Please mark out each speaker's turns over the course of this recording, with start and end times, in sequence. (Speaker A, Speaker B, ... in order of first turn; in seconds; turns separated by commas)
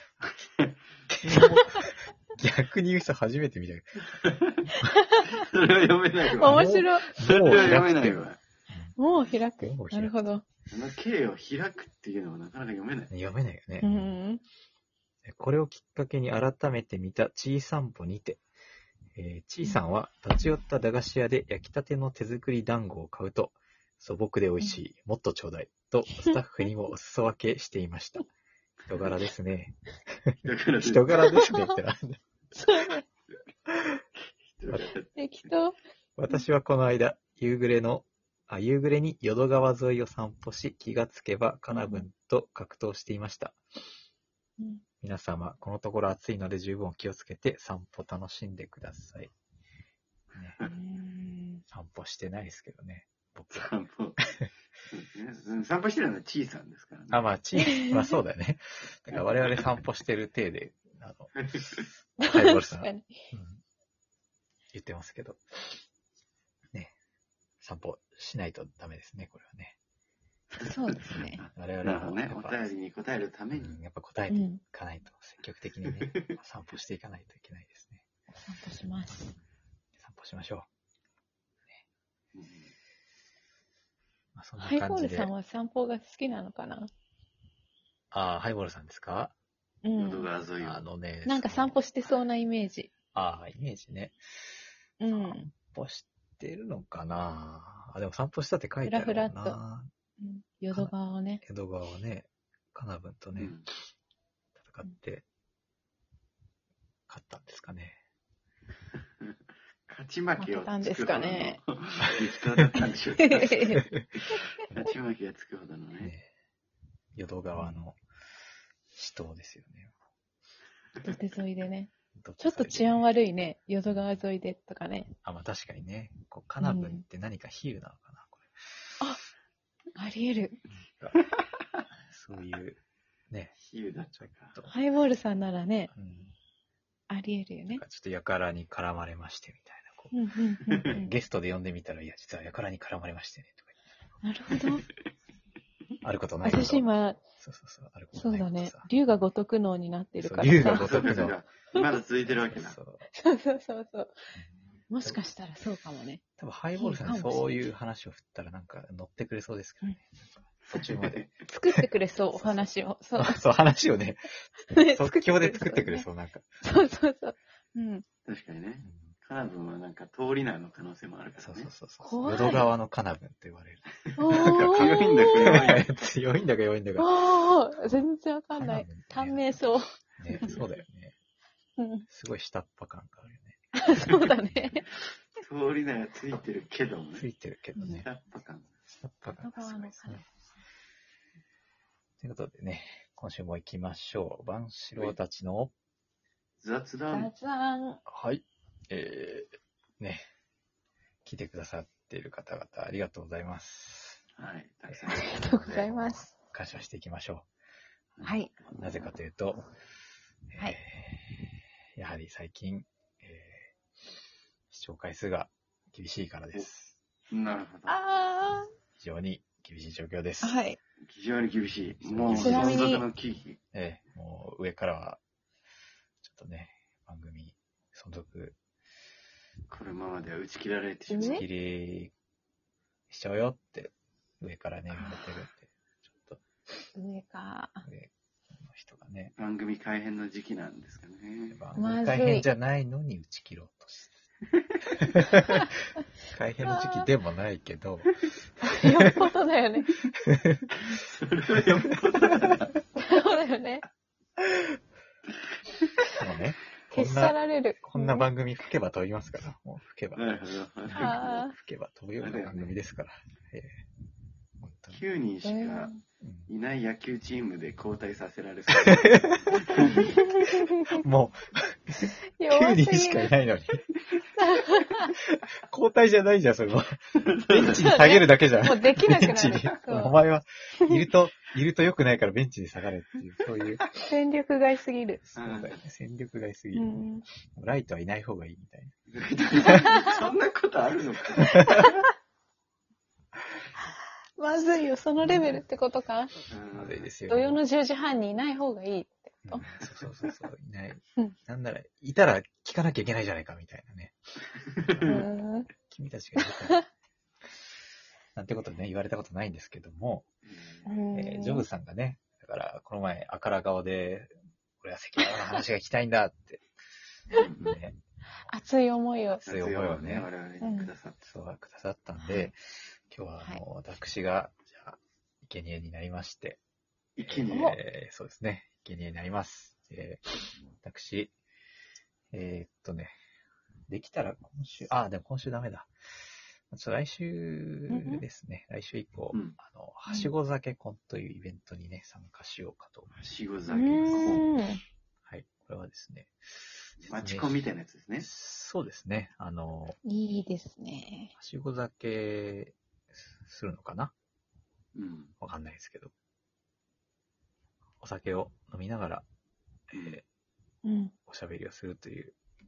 Speaker A: 0.2-0.9, Speaker B: 1.1-4.3, Speaker C: 1.5-1.8, Speaker A: 4.2-4.5, Speaker C: 4.9-5.4, Speaker A: 5.3-8.4, Speaker C: 6.3-7.8, Speaker B: 6.4-9.0, Speaker C: 9.0-10.4, Speaker B: 9.6-10.2, Speaker A: 10.7-13.1, Speaker B: 13.1-14.2, Speaker C: 13.8-14.4, Speaker B: 15.3-18.4, Speaker B: 19.1-28.3, Speaker A: 28.9-29.2, Speaker B: 28.9-32.2, Speaker A: 30.4-31.4, Speaker C: 31.3-31.7, Speaker C: 32.5-33.0, Speaker B: 33.7-34.0, Speaker A: 34.5-35.5, Speaker C: 35.2-35.8, Speaker B: 36.2-43.6, Speaker C: 41.7-42.1, Speaker B: 45.0-49.3, Speaker C: 50.6-51.6, Speaker B: 51.7-53.7, Speaker A: 53.5-54.2, Speaker A: 54.9-57.3, Speaker B: 57.1-61.4, Speaker C: 57.6-58.1, Speaker A: 59.1-59.7, Speaker A: 61.3-61.9, Speaker C: 62.2-63.1, Speaker B: 62.3-63.6, Speaker B: 64.7-65.8, Speaker B: 67.6-69.8, Speaker C: 70.6-71.4, Speaker A: 71.4-73.8, Speaker B: 71.5-72.7, Speaker B: 73.5-78.0, Speaker C: 74.3-74.6, Speaker A: 75.8-76.3, Speaker C: 78.4-79.4, Speaker B: 80.0-80.7, Speaker A: 82.3-82.7, Speaker B: 84.3-85.3, Speaker C: 84.6-86.9, Speaker B: 88.1-89.3, Speaker C: 89.8-90.3, Speaker A: 90.0-90.8, Speaker B: 90.6-91.8, Speaker C: 91.3-92.9, Speaker B: 93.1-94.2, Speaker C: 95.0-95.5, Speaker B: 95.1-99.9, Speaker C: 98.8-99.6, Speaker C: 100.2-101.4, Speaker B: 100.7-103.5, Speaker A: 103.4-103.7, Speaker B: 104.6-105.2, Speaker B: 107.1-108.0, Speaker A: 109.9-116.1, Speaker C: 110.4-111.6, Speaker B: 112.6-112.8, Speaker C: 112.8-113.9, Speaker B: 113.7-114.1, Speaker B: 116.0-116.3, Speaker B: 117.2-118.0, Speaker B: 118.9-119.9, Speaker C: 121.0-125.1, Speaker B: 122.2-123.0, Speaker B: 123.8-124.2, Speaker B: 125.2-128.9, Speaker C: 126.6-127.0, Speaker C: 129.9-130.6, Speaker B: 130.8-131.2, Speaker A: 131.4-131.8, Speaker B: 132.1-132.8, Speaker B: 133.3-133.6, Speaker A: 133.6-134.6, Speaker B: 134.2-134.7, Speaker C: 134.7-135.9, Speaker B: 135.9-136.3, Speaker C: 137.1-137.8, Speaker B: 137.7-140.1, Speaker C: 140.1-141.1, Speaker B: 140.8-143.8, Speaker C: 144.2-144.9, Speaker B: 146.0-148.9, Speaker C: 146.4-147.2, Speaker C: 148.1-151.1, Speaker B: 150.2-151.3, Speaker A: 150.6-152.8, Speaker B: 152.2-153.1, Speaker C: 153.1-154.1, Speaker B: 154.4-155.2, Speaker C: 154.9-156.2, Speaker B: 156.4-161.2, Speaker C: 156.8-157.6, Speaker A: 160.7-161.4, Speaker C: 161.5-163.4, Speaker B: 162.3-166.5, Speaker C: 164.7-166.1, Speaker C: 166.6-168.1, Speaker A: 168.3-171.7, Speaker B: 168.8-169.1, Speaker B: 171.4-178.0, Speaker C: 172.0-172.7, Speaker C: 174.2-175.8, Speaker A: 174.3-175.9, Speaker C: 177.0-179.9, Speaker B: 178.6-179.6, Speaker B: 180.2-181.2, Speaker C: 181.8-182.1, Speaker B: 182.1-184.7, Speaker C: 183.8-184.9, Speaker A: 185.4-187.3, Speaker B: 187.2-188.1, Speaker A: 187.8-188.7, Speaker B: 188.9-190.2, Speaker C: 189.4-190.3, Speaker B: 192.2-195.7, Speaker A: 196.6-197.3, Speaker C: 197.1-198.0, Speaker B: 198.1-200.2, Speaker B: 201.2-204.2, Speaker A: 204.4-205.9, Speaker C: 205.1-206.3, Speaker B: 205.6-207.5, Speaker A: 208.2-208.7, Speaker C: 208.2-208.5, Speaker B: 208.8-209.6, Speaker B: 210.5-213.7, Speaker B: 214.7-216.9, Speaker A: 217.3-218.0, Speaker C: 217.9-218.7, Speaker B: 219.0-220.6, Speaker C: 220.4-220.8, Speaker A: 221.0-223.6, Speaker B: 222.0-222.9, Speaker C: 222.3-223.1, Speaker B: 223.7-225.2, Speaker B: 226.2-228.6, Speaker A: 229.7-231.4, Speaker C: 231.1-231.5, Speaker B: 231.2-232.1, Speaker B: 233.1-236.4, Speaker C: 234.9-235.2, Speaker C: 236.9-237.9, Speaker B: 237.8-239.3, Speaker A: 239.4-241.6, Speaker B: 241.5-244.2, Speaker C: 241.8-242.5, Speaker B: 245.1-248.2, Speaker C: 246.7-247.1, Speaker C: 248.6-250.0, Speaker B: 250.2-250.7, Speaker A: 250.8-252.7, Speaker C: 252.9-253.9, Speaker B: 256.1-263.8, Speaker C: 256.9-258.3, Speaker A: 260.2-261.2, Speaker C: 261.0-261.5, Speaker A: 262.2-262.8, Speaker B: 264.6-265.0, Speaker A: 264.9-265.9, Speaker C: 265.4-266.0, Speaker B: 266.2-266.5, Speaker A: 266.5-270.1, Speaker B: 268.9-270.1, Speaker C: 270.0-271.0, Speaker B: 270.9-273.8, Speaker C: 272.4-273.3, Speaker C: 274.4-275.1, Speaker B: 275.3-283.9, Speaker A: 277.3-277.8, Speaker C: 277.8-280.2, Speaker C: 284.0-285.2, Speaker B: 285.3-289.0, Speaker A: 285.4-285.8, Speaker C: 286.7-287.2, Speaker A: 289.1-291.8, Speaker B: 291.4-291.8, Speaker C: 291.7-292.0, Speaker C: 294.4-296.4, Speaker B: 295.2-295.6, Speaker A: 296.5-297.1, Speaker B: 296.7-297.6, Speaker C: 297.3-299.7, Speaker B: 299.5-304.1, Speaker A: 304.9-305.2, Speaker B: 304.9-305.3, Speaker C: 305.1-305.7, Speaker B: 305.9-306.8, Speaker C: 306.4-306.8, Speaker B: 308.4-310.3, Speaker A: 310.4-311.0, Speaker C: 310.9-311.7, Speaker B: 311.1-316.6, Speaker C: 315.4-315.6, Speaker A: 317.3-317.8, Speaker B: 317.6-318.0, Speaker C: 318.5-319.4, Speaker B: 319.4-320.3, Speaker A: 319.4-321.2, Speaker C: 320.6-320.9, Speaker B: 321.2-326.6, Speaker C: 322.2-322.5, Speaker A: 327.2-327.8, Speaker B: 327.2-331.3, Speaker C: 327.5-327.8, Speaker B: 332.3-333.1, Speaker B: 333.9-335.9, Speaker B: 336.7-343.1, Speaker C: 337.9-338.2, Speaker A: 339.3-339.6, Speaker A: 343.1-344.4, Speaker C: 343.7-344.8, Speaker B: 344.1-344.4, Speaker B: 345.3-350.0, Speaker A: 347.0-348.3, Speaker C: 350.0-351.3, Speaker B: 351.4-354.1, Speaker A: 354.9-355.3, Speaker B: 355.4-356.1, Speaker B: 358.0-359.2, Speaker B: 359.9-360.2, Speaker A: 359.9-360.2, Speaker C: 360.8-361.1, Speaker B: 361.3-362.4